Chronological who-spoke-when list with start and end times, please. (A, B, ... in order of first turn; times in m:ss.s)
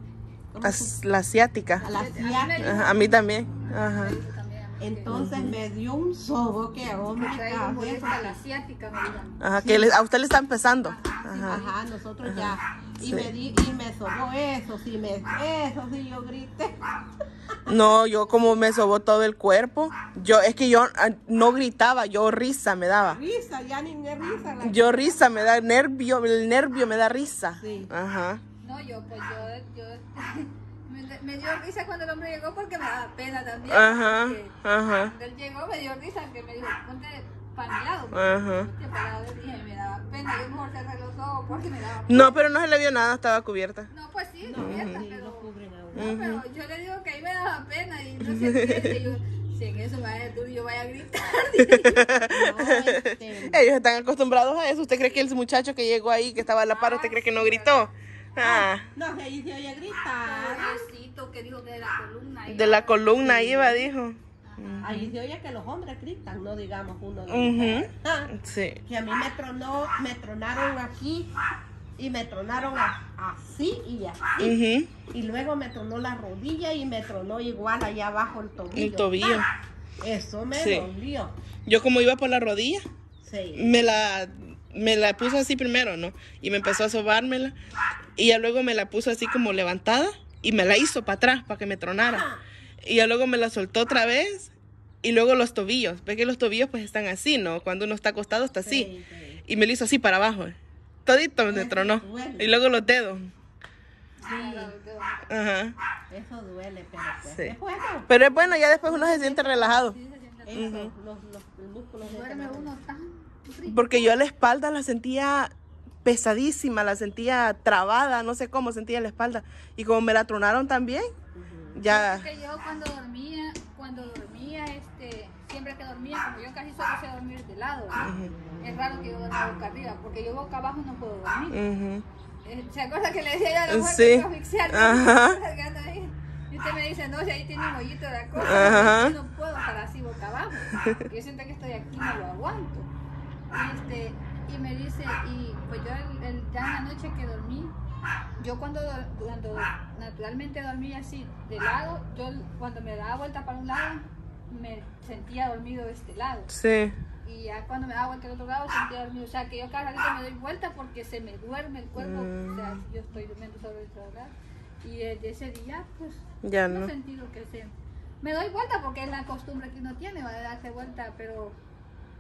0:00.5-0:01.0 A
0:00.6-0:01.9 B
0:01.8-0:05.2 C
0:01.8-0:02.9 A
0:02.6-0:04.2 B
0:04.8-0:08.4 A
0:05.1-0:05.6 B
0:07.1-0:09.4 C
0:09.4-0:11.6 B
0:09.6-0:10.0 A
0:10.8-0:11.8 C
0:11.5-0:16.8 A
0:12.2-0:13.3 B
0:17.7-0:23.2 B
0:23.1-0:25.2 A
0:24.6-0:28.4 B
0:27.6-0:27.9 A
0:28.6-0:42.4 C
0:33.7-0:35.1 B
0:38.1-0:38.7 B
0:42.1-0:43.9 B
0:43.9-0:52.2 C
0:44.4-0:46.2 A
0:44.6-0:45.0 B
0:46.0-0:46.4 B
0:48.2-0:49.1 B
0:51.8-0:58.9 B
0:52.3-0:53.6 A
0:56.7-0:57.9 C
0:58.4-0:58.7 C
0:58.8-1:00.9 A
1:00.2-1:03.9 C
1:02.5-1:05.0 B
1:03.5-1:03.7 A
1:04.4-1:05.1 C
1:04.8-1:11.3 A
1:07.3-1:08.8 B
1:12.0-1:14.5 A
1:14.4-1:14.9 B
1:15.1-1:19.2 A
1:18.7-1:19.5 B
1:20.0-1:21.3 A
1:20.6-1:20.9 B
1:21.7-1:22.8 B
1:23.2-1:24.0 A
1:23.6-1:27.6 B
1:28.2-1:32.3 B
1:32.0-1:32.4 A
1:32.8-1:34.5 B
1:35.0-1:38.9 B
1:38.6-1:39.4 A
1:39.5-1:43.3 B
1:41.5-1:42.6 A
1:44.2-1:45.2 C
1:44.3-1:44.7 A
1:45.3-1:45.8 B
1:46.1-1:49.8 A
1:47.3-1:47.6 B
1:48.1-1:50.0 B
1:48.4-1:50.8 C
1:50.5-1:52.8 A
1:50.5-1:50.9 B
1:52.0-1:54.2 C
1:53.7-1:55.5 B
1:56.0-2:01.1 B
2:01.3-2:01.8 A
2:01.8-2:02.3 B
2:01.9-2:11.6 C
2:08.0-2:08.3 B
2:11.5-2:12.0 B
2:12.4-2:22.9 C
2:13.7-2:15.4 B
2:18.4-2:19.2 B
2:23.5-2:27.8 C
2:28.4-2:36.5 C
2:36.5-2:37.0 B
2:37.2-2:51.6 C
2:42.0-2:42.8 B
2:46.4-2:46.9 B